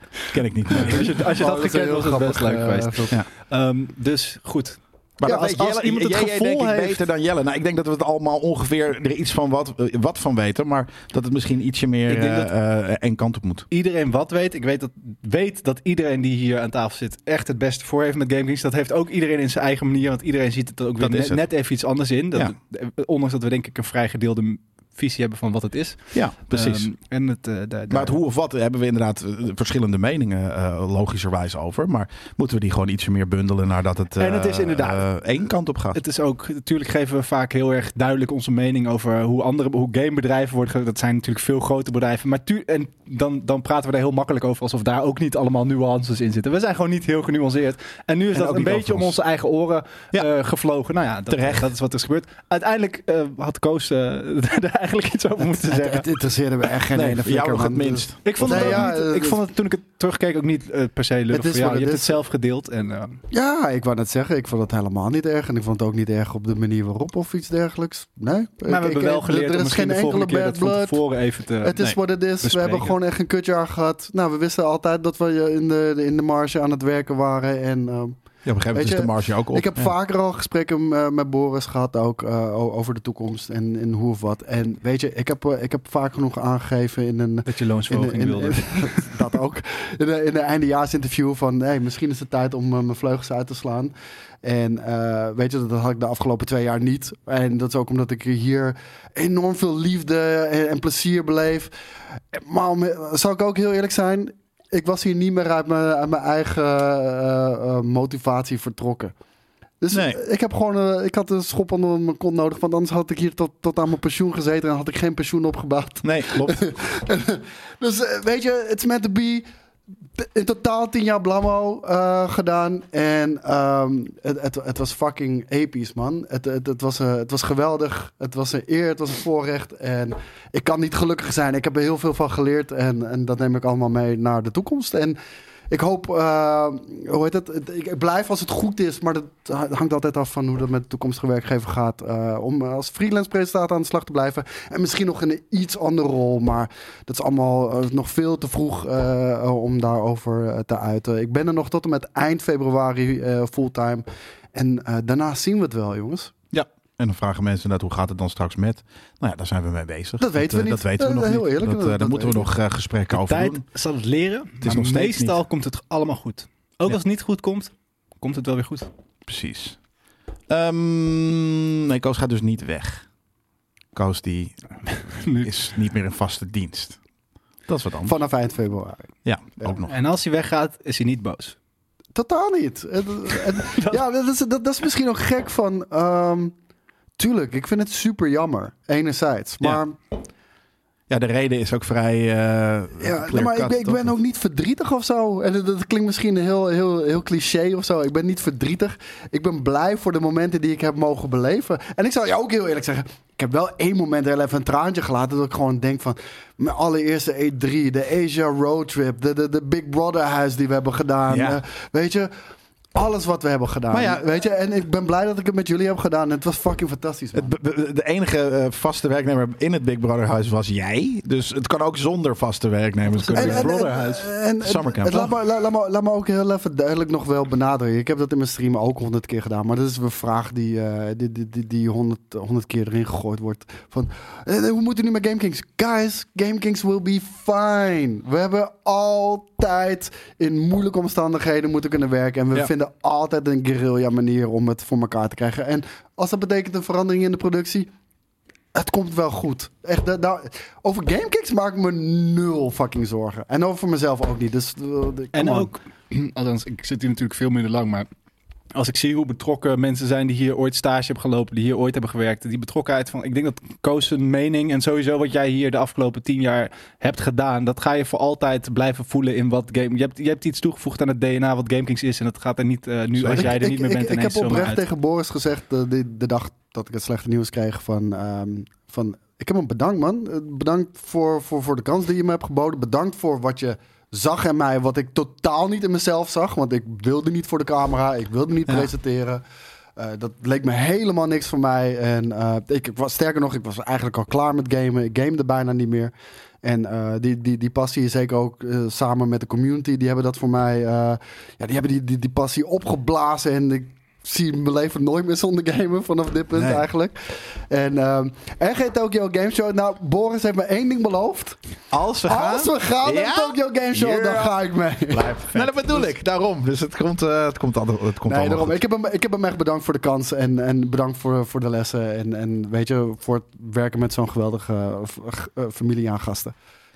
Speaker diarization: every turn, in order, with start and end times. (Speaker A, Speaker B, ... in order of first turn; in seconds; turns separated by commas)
Speaker A: 0.3-1.2, Speaker B: 0.7-3.1, Speaker C: 0.7-7.0, Speaker A: 5.2-13.7, Speaker C: 12.1-12.5, Speaker C: 13.7-28.2, Speaker A: 21.0-21.4, Speaker A: 26.1-26.9, Speaker A: 27.9-36.0, Speaker C: 34.2-35.1, Speaker C: 36.0-56.1, Speaker A: 48.3-49.2, Speaker A: 51.3-51.7, Speaker B: 55.6-59.4, Speaker A: 56.9-58.9, Speaker C: 58.2-63.2, Speaker B: 61.3-62.2, Speaker B: 63.3-71.0, Speaker C: 68.7-71.9, Speaker B: 71.6-78.2, Speaker C: 72.4-73.0, Speaker A: 78.5-79.9, Speaker B: 78.7-109.1, Speaker C: 87.5-89.2, Speaker B: 109.8-119.5, Speaker A: 109.9-110.2, Speaker A: 116.0-116.6, Speaker B: 120.2-135.2, Speaker B: 135.7-156.3, Speaker A: 156.5-163.6, Speaker B: 160.2-162.5, Speaker C: 163.1-168.9, Speaker A: 164.6-165.4, Speaker A: 169.3-169.8, Speaker A: 170.5-173.1, Speaker A: 173.9-174.6, Speaker C: 175.1-175.6, Speaker A: 175.4-177.0, Speaker A: 177.7-178.2, Speaker B: 178.1-179.1, Speaker A: 179.2-179.9, Speaker C: 179.8-181.6, Speaker B: 182.2-186.5, Speaker C: 183.6-184.0, Speaker B: 187.2-190.0, Speaker A: 191.1-194.1, Speaker B: 193.0-212.3, Speaker A: 211.3-211.6, Speaker B: 212.9-217.5, Speaker A: 213.9-214.2, Speaker A: 217.3-223.8, Speaker C: 223.1-224.3, Speaker B: 223.3-247.9, Speaker A: 224.6-225.3, Speaker B: 248.7-255.7, Speaker C: 255.3-258.1, Speaker C: 258.7-274.8, Speaker B: 273.2-289.4, Speaker B: 290.0-311.6, Speaker A: 306.6-306.9, Speaker A: 311.9-314.6, Speaker B: 312.2-316.0, Speaker A: 315.1-318.8, Speaker B: 318.3-326.5